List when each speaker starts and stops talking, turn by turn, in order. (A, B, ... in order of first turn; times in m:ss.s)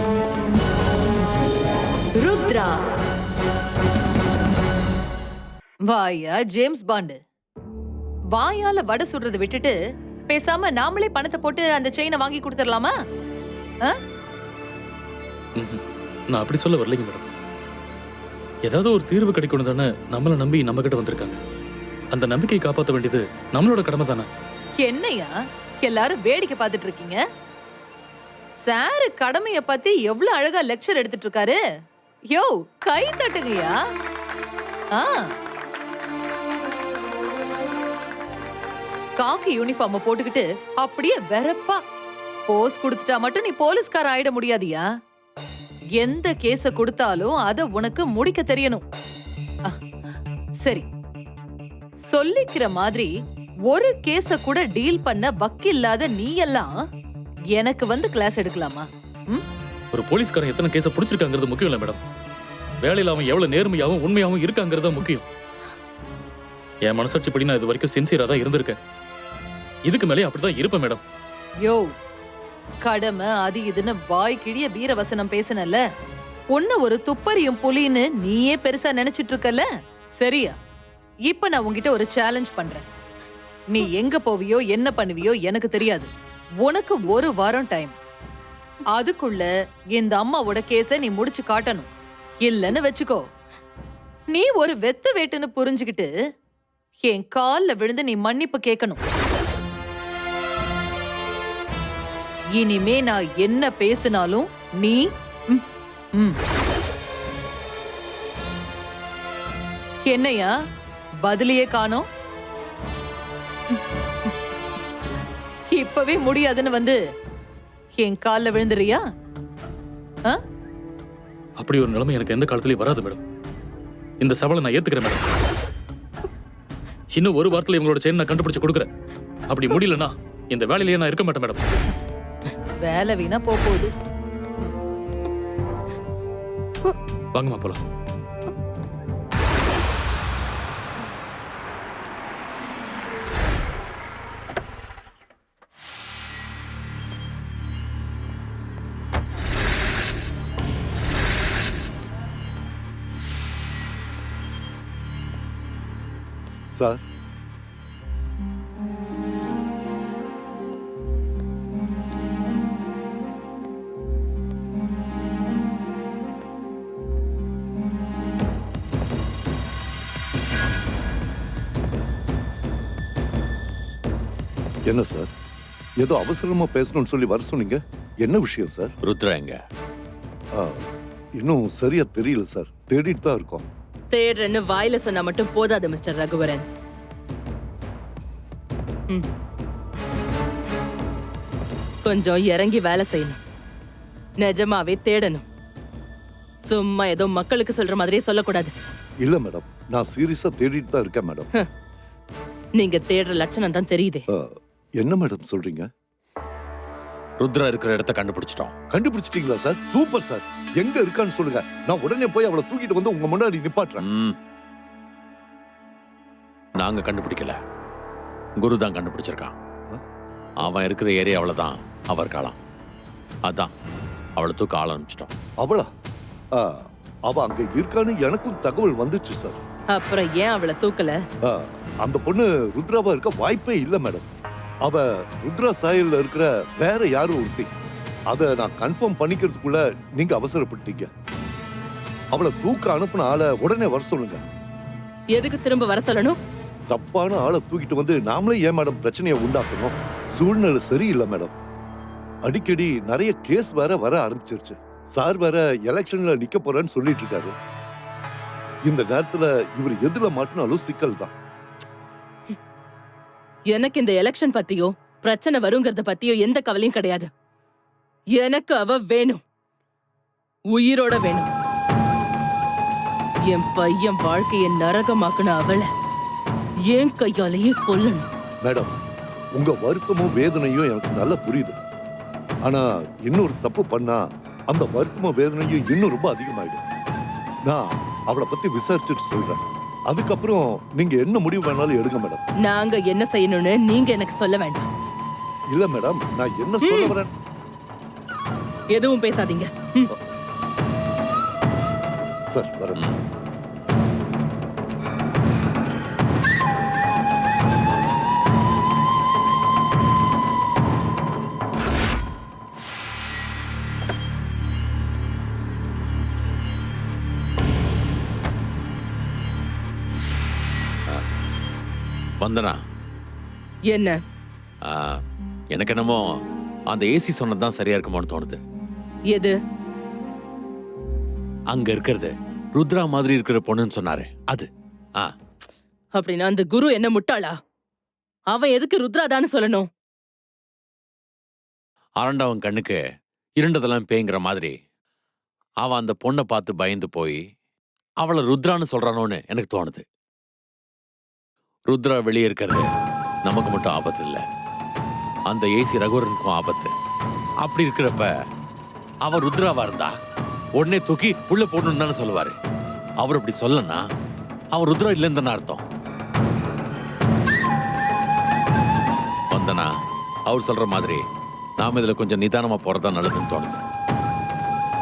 0:02.2-0:02.8 A
0:05.9-0:07.2 A
0:08.4-0:09.7 A
0:10.3-0:12.9 A
0:15.6-0:17.3 B
0:18.6-0:21.4 B
0:22.1-0:24.3 B
0:24.8-0:27.2 A
0:28.7-0:31.6 A
0:32.4-0:33.8 A
0:35.0-0:35.3 A
0:39.2-0:41.8 A
0:42.5-0:44.8 A
0:46.0-0:48.8 A
0:52.1-0:53.1 A
0:53.7-0:56.8 A
0:57.6-0:59.4 A
0:59.9-1:02.0 B
1:02.8-1:05.3 B
1:06.8-1:08.8 B
1:09.9-1:11.0 B
1:12.8-1:15.8 A
1:16.5-1:19.6 A
1:20.2-1:20.5 A
1:21.3-1:22.9 A
1:23.7-1:26.1 A
1:26.6-1:27.9 A
1:29.0-1:31.9 A
1:32.4-1:33.2 A
1:34.3-1:36.1 A
1:37.1-1:39.0 A
1:42.6-1:45.6 A
1:50.1-1:50.5 A
1:51.3-1:52.0 A
1:55.7-1:57.0 A
1:58.0-1:59.0 A
2:01.6-2:03.2 B
2:04.2-2:05.3 B
2:07.1-2:08.9 B
2:09.5-2:11.7 B
2:12.8-2:13.9 A
2:17.3-2:17.8 B
2:36.7-2:37.0 C
2:54.9-2:55.3 C
2:56.0-2:58.9 C
2:59.0-2:59.6 D
3:00.6-3:00.8 C
3:01.4-3:03.7 C
3:04.1-3:06.6 E
3:12.0-3:13.4 E
3:14.4-3:15.4 E
3:16.6-3:18.7 E
3:19.2-3:21.5 C
3:22.8-3:24.2 E
3:24.3-3:25.9 C
3:27.4-3:28.7 D
3:28.9-3:34.0 C
3:34.0-3:34.4 D
3:36.8-3:37.6 D
3:38.6-3:39.5 D
3:40.6-3:42.6 D
3:43.5-3:43.7 D
3:44.4-3:45.3 D
3:45.6-3:45.9 C
3:46.6-3:49.6 C
3:49.9-3:51.2 E
3:51.5-3:54.3 C
3:54.8-3:57.7 C
3:58.3-4:01.1 C
4:02.3-4:04.4 C
4:05.3-4:06.4 E
4:06.9-4:11.5 C
4:12.4-4:17.6 C
4:18.9-4:21.3 C
4:23.7-4:27.3 E
4:28.4-4:29.4 E
4:30.7-4:31.5 E
4:33.5-4:35.9 E
4:36.9-4:38.3 E
4:38.6-4:38.9 C
4:39.6-4:41.8 C
4:42.7-4:46.8 C
4:47.7-4:52.4 C
4:52.6-4:54.9 E
4:55.7-4:57.3 C
4:56.8-4:57.2 E
4:58.9-5:00.1 E
5:02.5-5:03.1 C
5:22.4-5:22.8 D
5:23.9-5:24.2 E
5:24.9-5:25.2 D
5:25.7-5:26.2 D
5:26.9-5:28.6 D
5:31.7-5:35.3 D
5:36.2-5:37.6 E
5:38.5-5:39.9 E
5:42.2-5:43.0 D
5:43.6-5:44.7 D
5:45.8-5:47.4 D
5:48.2-5:50.0 D
5:51.9-5:52.9 D
5:53.5-5:54.4 D
5:55.5-5:56.9 D
5:57.6-5:58.3 D
5:59.2-6:00.1 D
6:00.8-6:02.6 D
6:03.2-6:04.0 D
6:04.7-6:05.8 D
6:09.5-6:09.9 D
6:10.5-6:11.2 D
6:11.8-6:13.8 D